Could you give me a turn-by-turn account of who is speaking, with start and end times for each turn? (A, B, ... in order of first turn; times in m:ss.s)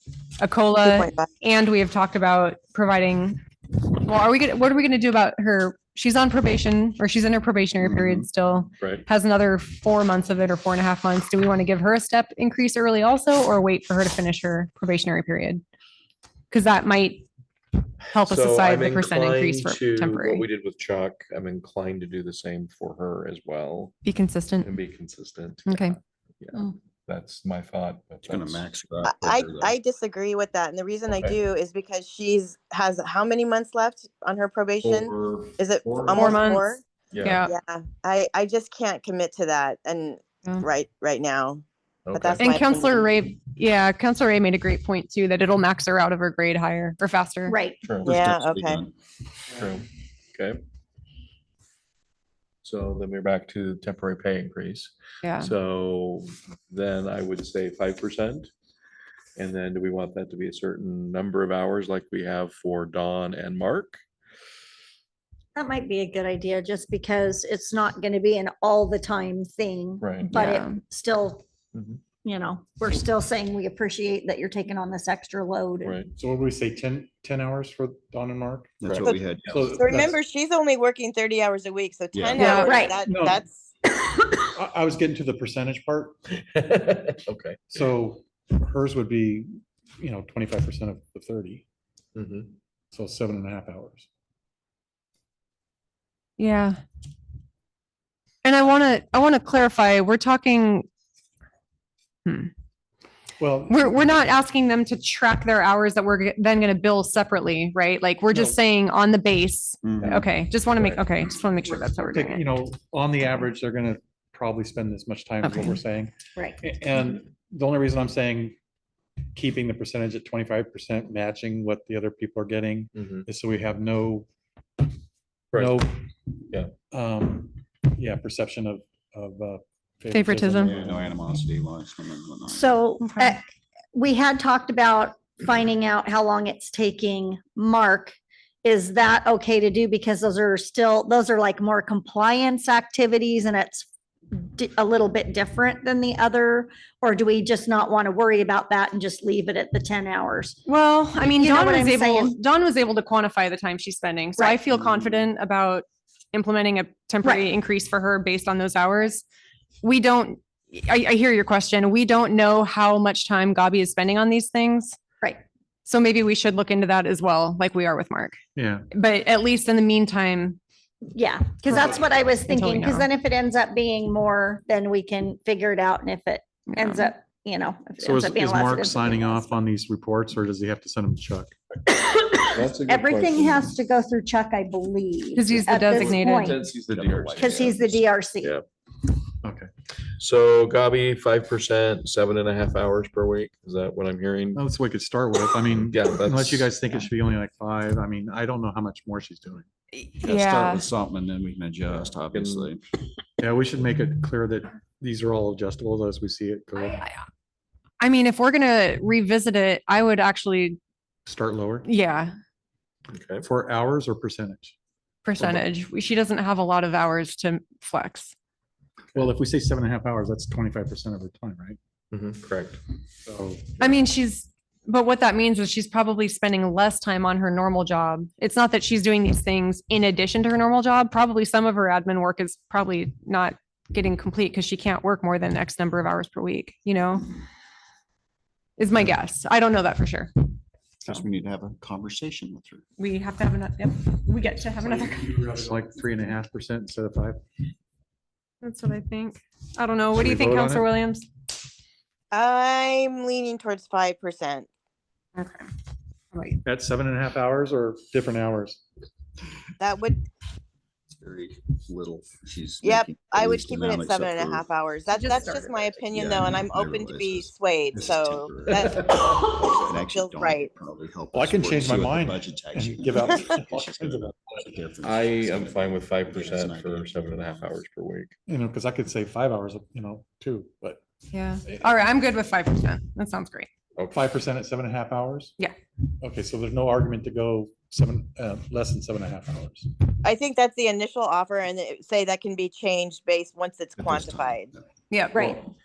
0:00.4-0:15.6 A
0:00.8-0:01.3 B
0:07.8-0:08.2 C
0:08.8-0:09.0 D
0:16.5-0:17.3 A
0:18.1-0:20.4 A
0:18.2-0:23.9 D
0:24.0-0:24.7 A
0:24.6-0:28.6 D
0:25.7-0:26.0 A
0:28.3-0:29.8 C
0:29.0-0:36.8 B
0:31.1-0:31.4 D
0:34.8-0:36.5 D
0:36.1-0:37.5 A
0:37.1-0:37.4 D
0:37.4-0:43.0 B
0:42.1-0:42.5 D
0:42.4-0:47.6 A
0:47.5-0:47.8 E
0:47.8-0:48.2 D
0:48.0-0:48.8 B
0:48.0-0:48.9 C
0:49.5-0:50.6 D
0:52.6-0:58.5 D
0:55.2-0:55.5 A
0:59.4-1:04.0 D
1:05.5-1:11.4 E
1:10.0-1:10.3 D
1:10.3-1:10.8 A
1:11.7-1:12.0 D
1:12.2-1:16.0 E
1:15.8-1:16.1 D
1:16.2-1:18.8 F
1:18.8-1:19.9 C
1:18.8-1:19.2 D
1:19.0-1:23.7 B
1:19.5-1:20.2 F
1:22.1-1:22.6 C
1:22.4-1:22.8 A
1:22.4-1:23.4 F
1:22.6-1:22.9 E
1:24.6-1:26.2 F
1:26.4-1:27.9 D
1:27.7-1:29.5 F
1:30.0-1:31.6 F
1:32.1-1:32.5 D
1:32.9-1:34.0 F
1:36.4-1:36.8 A
1:38.4-1:40.9 A
1:42.2-1:42.5 A
1:43.4-1:44.1 F
1:43.7-1:52.5 A
1:49.8-1:50.3 C
1:52.0-1:58.6 F
1:55.4-1:55.8 A
1:59.3-2:04.3 F
2:02.9-2:03.2 D
2:05.5-2:06.0 F
2:05.5-2:05.8 D
2:06.9-2:11.1 F
2:10.1-2:10.7 A
2:10.6-2:12.8 C
2:12.5-2:13.4 E
2:13.0-2:13.4 A
2:13.9-2:30.6 E
2:30.6-2:39.2 A
2:31.4-2:32.4 E
2:39.8-2:45.0 A
2:45.8-2:48.4 A
2:48.5-2:48.8 F
2:48.9-2:50.6 A
2:51.1-2:59.5 E
2:51.7-2:53.1 A
2:56.7-2:57.1 A
2:58.0-3:01.5 F
3:01.9-3:06.6 E
3:02.5-3:03.7 D
3:05.4-3:06.6 A
3:05.9-3:07.8 D
3:06.8-3:08.0 C
3:07.4-3:08.6 E
3:09.4-3:09.7 F
3:10.2-3:14.6 D
3:14.5-3:19.6 F
3:15.7-3:16.7 D
3:19.9-3:20.8 A
3:20.2-3:22.8 C
3:22.3-3:22.7 D
3:23.4-3:27.0 F
3:26.9-3:27.2 A
3:28.0-3:30.8 A
3:31.2-3:31.9 F
3:31.8-3:32.3 A
3:33.1-3:33.4 D
3:33.4-3:34.7 F
3:35.2-3:38.3 A
3:39.1-3:41.8 F
3:42.1-3:42.8 D
3:43.2-3:43.8 F
3:43.8-3:57.3 A
3:58.8-4:00.4 A
4:01.0-4:02.8 C
4:03.0-4:05.4 A
4:05.2-4:07.4 F
4:08.6-4:11.3 A
4:10.1-4:10.9 F
4:12.3-4:14.7 B
4:15.4-4:15.7 A
4:16.3-4:16.6 A
4:16.6-4:18.8 F
4:19.8-4:20.2 B
4:21.1-4:24.7 C
4:22.8-4:29.1 B
4:25.1-4:26.0 A
4:26.1-4:28.9 C
4:29.6-4:37.8 C
4:30.1-4:30.7 B
4:31.3-4:34.6 F
4:35.0-4:38.3 D
4:38.5-4:41.0 F
4:41.3-4:43.7 A
4:44.0-4:44.3 D
4:44.1-4:45.5 F
4:46.2-4:49.9 F
4:50.2-4:54.7 B
4:54.0-4:54.6 C
4:55.1-4:55.6 A
4:55.3-4:55.6 E